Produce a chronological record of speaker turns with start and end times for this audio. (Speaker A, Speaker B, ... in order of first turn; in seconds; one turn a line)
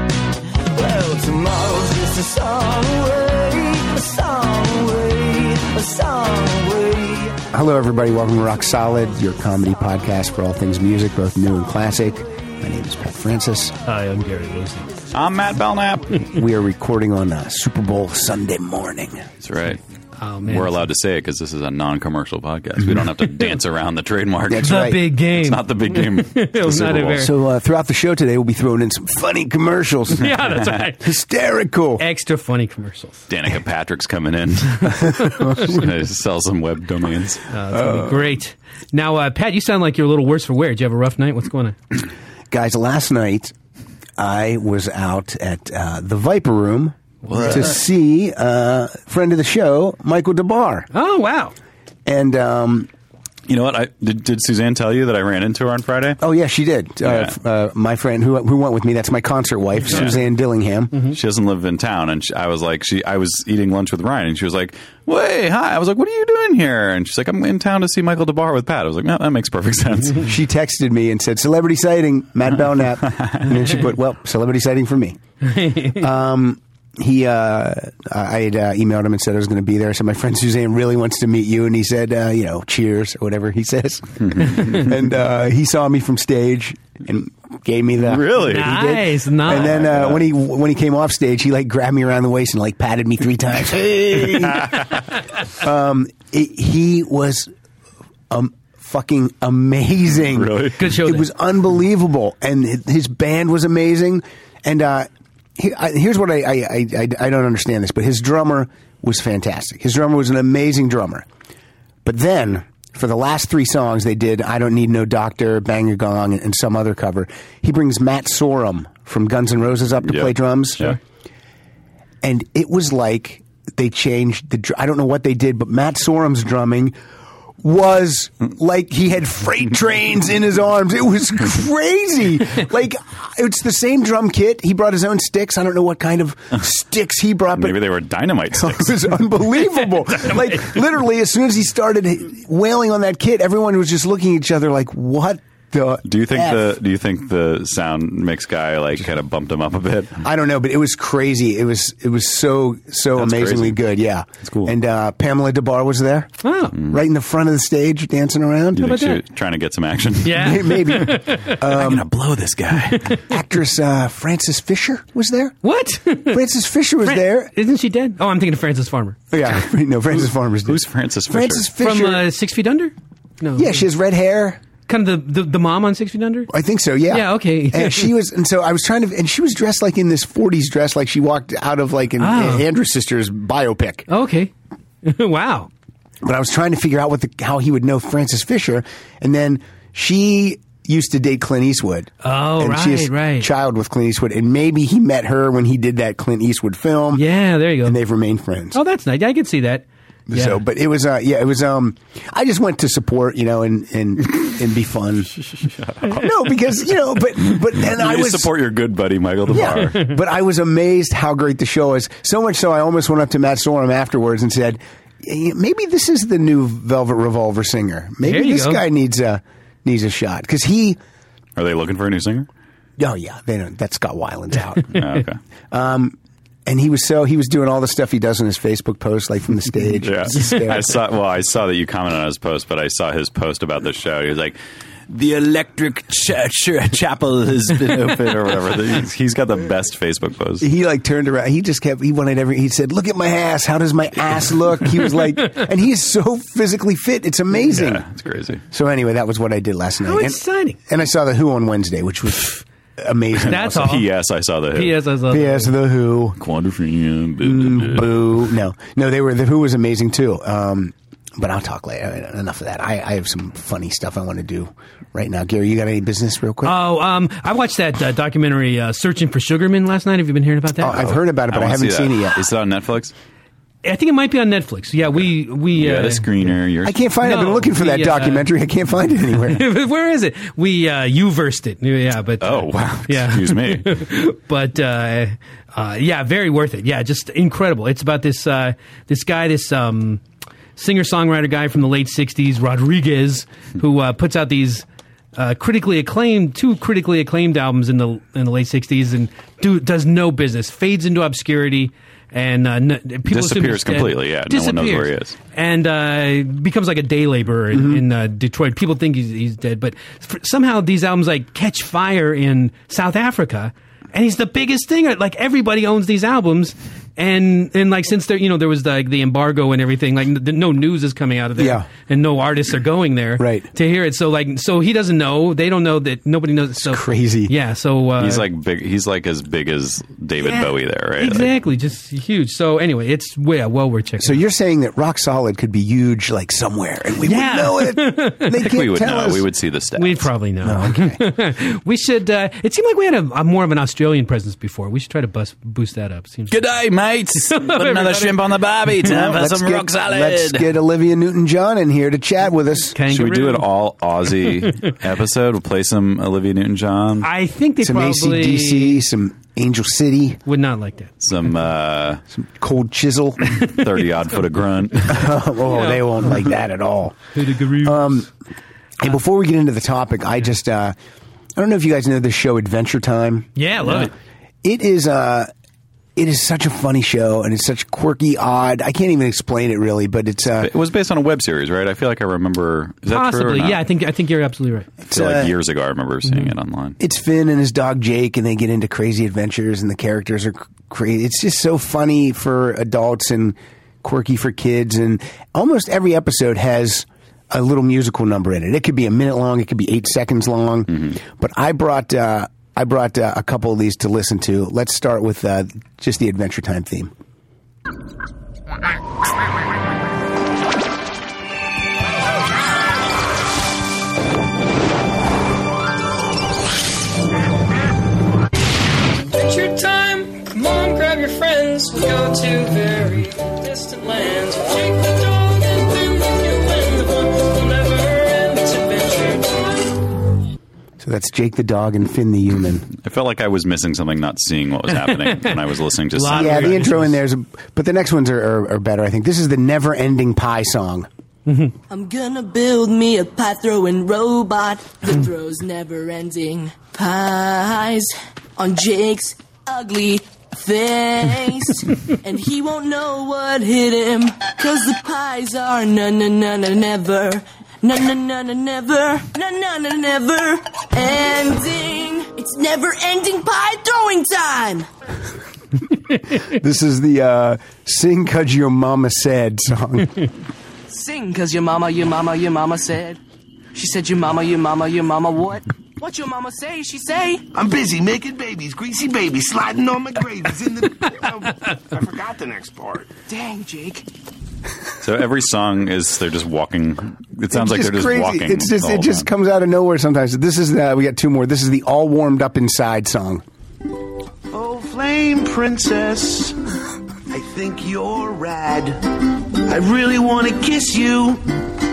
Speaker A: 0.7-7.5
Speaker B: 7.5-13.8
Speaker C: 13.8-15.0
Speaker D: 15.1-16.2
Speaker B: 16.3-19.3
Speaker D: 19.4-19.8
Speaker C: 20.2-20.9
Speaker D: 20.4-27.3
Speaker B: 24.5-25.0
Speaker C: 24.6-27.3
Speaker B: 27.2-30.3
Speaker C: 30.2-31.1
Speaker B: 31.0-32.0
Speaker C: 32.0-33.2
Speaker D: 33.3-37.5
Speaker B: 35.2-35.8
Speaker C: 37.5-41.8
Speaker B: 37.7-38.2
Speaker B: 42.5-43.5
Speaker B: 44.2-50.9
Speaker C: 47.2-47.8
Speaker D: 47.3-47.7
Speaker C: 50.9-51.5
Speaker B: 52.1-52.9
Speaker D: 53.5-56.2
Speaker B: 56.2-60.9
Speaker D: 57.0-57.3
Speaker D: 59.9-60.2
Speaker D: 61.1-70.3
Speaker B: 70.2-75.2
Speaker D: 73.0-73.5
Speaker C: 75.4-76.1
Speaker B: 76.0-94.9
Speaker D: 88.0-89.0
Speaker C: 88.4-89.8
Speaker D: 89.5-90.2
Speaker B: 95.5-97.5
Speaker B: 98.3-111.3
Speaker D: 100.3-100.8
Speaker C: 100.8-101.3
Speaker B: 112.0-121.0
Speaker D: 120.1-121.0
Speaker B: 122.2-127.0
Speaker B: 127.6-137.8
Speaker D: 137.6-139.1
Speaker B: 138.5-146.8
Speaker D: 146.1-150.2
Speaker B: 150.2-156.4
Speaker D: 153.2-153.8
Speaker D: 154.4-154.7
Speaker C: 156.4-156.8
Speaker B: 156.9-159.0
Speaker D: 158.8-160.7
Speaker C: 158.8-159.2
Speaker C: 160.2-161.6
Speaker B: 160.3-162.1
Speaker D: 161.6-163.1
Speaker B: 163.3-165.6
Speaker C: 165.6-166.4
Speaker B: 166.3-167.5
Speaker C: 167.0-169.2
Speaker B: 169.3-172.2
Speaker D: 170.2-171.7
Speaker C: 171.8-173.8
Speaker B: 173.6-174.6
Speaker C: 174.9-176.5
Speaker B: 176.5-184.1
Speaker C: 177.1-178.1
Speaker C: 182.2-182.7
Speaker C: 184.1-184.5
Speaker C: 185.0-185.7
Speaker B: 186.2-197.2
Speaker C: 192.2-193.5
Speaker C: 197.1-198.0
Speaker B: 197.8-198.8
Speaker C: 198.7-200.6
Speaker B: 200.3-205.4
Speaker D: 205.8-206.6
Speaker B: 206.2-208.5
Speaker D: 207.5-210.0
Speaker B: 209.5-221.0
Speaker C: 218.2-218.8
Speaker D: 221.6-222.5
Speaker B: 223.0-225.0
Speaker D: 224.9-225.4
Speaker B: 225.7-231.0
Speaker D: 230.0-234.6
Speaker D: 235.1-240.7
Speaker B: 240.6-248.1
Speaker D: 247.7-248.6
Speaker B: 248.7-254.0
Speaker C: 250.0-250.8
Speaker C: 253.5-254.1
Speaker D: 253.5-255.0
Speaker C: 254.8-255.7
Speaker B: 255.3-256.4
Speaker D: 256.4-258.1
Speaker B: 257.4-266.8
Speaker C: 266.6-271.0
Speaker B: 270.8-272.4
Speaker D: 270.9-273.1
Speaker C: 273.8-276.5
Speaker D: 275.7-276.9
Speaker B: 276.9-279.6
Speaker C: 277.2-278.5
Speaker C: 279.4-290.2
Speaker D: 282.4-284.0
Speaker C: 290.8-294.9
Speaker C: 295.4-328.5
Speaker D: 303.3-305.4
Speaker B: 307.7-308.0
Speaker B: 321.6-321.9
Speaker B: 323.4-323.7
Speaker B: 326.8-327.5
Speaker D: 328.2-331.5
Speaker C: 330.4-334.4
Speaker B: 334.2-339.4
Speaker C: 337.2-338.6
Speaker D: 338.6-340.3
Speaker C: 340.0-346.6
Speaker B: 340.6-341.2
Speaker D: 346.5-350.7
Speaker C: 347.5-348.5
Speaker B: 349.1-353.0
Speaker C: 352.9-353.6
Speaker D: 353.1-357.3
Speaker C: 357.2-359.0
Speaker B: 357.8-360.4
Speaker C: 360.5-361.1
Speaker D: 361.2-362.2
Speaker B: 362.3-363.4
Speaker D: 363.6-365.3
Speaker B: 365.1-367.2
Speaker C: 365.7-366.2
Speaker C: 367.3-368.3
Speaker B: 367.8-368.3
Speaker B: 369.0-370.9
Speaker B: 371.6-373.5
Speaker C: 373.6-374.1
Speaker B: 374.6-375.5
Speaker B: 376.2-380.7
Speaker D: 380.6-383.8
Speaker C: 383.1-384.9
Speaker B: 385.1-385.5
Speaker D: 385.1-387.0
Speaker B: 387.0-407.1
Speaker E: 419.3-429.9
Speaker B: 431.0-432.9
Speaker D: 433.0-436.8
Speaker C: 434.9-435.6
Speaker C: 436.1-437.2
Speaker B: 436.3-441.1
Speaker C: 441.5-441.7
Speaker F: 441.9-464.9
Speaker B: 466.5-470.1
Speaker F: 470.9-473.2
Speaker F: 473.7-477.5
Speaker G: 477.5-483.1
Speaker F: 483.3-484.1
Speaker D: 485.0-489.3
Speaker B: 487.5-493.4
Speaker G: 494.5-496.6
Speaker G: 497.3-499.0
Speaker G: 499.7-501.4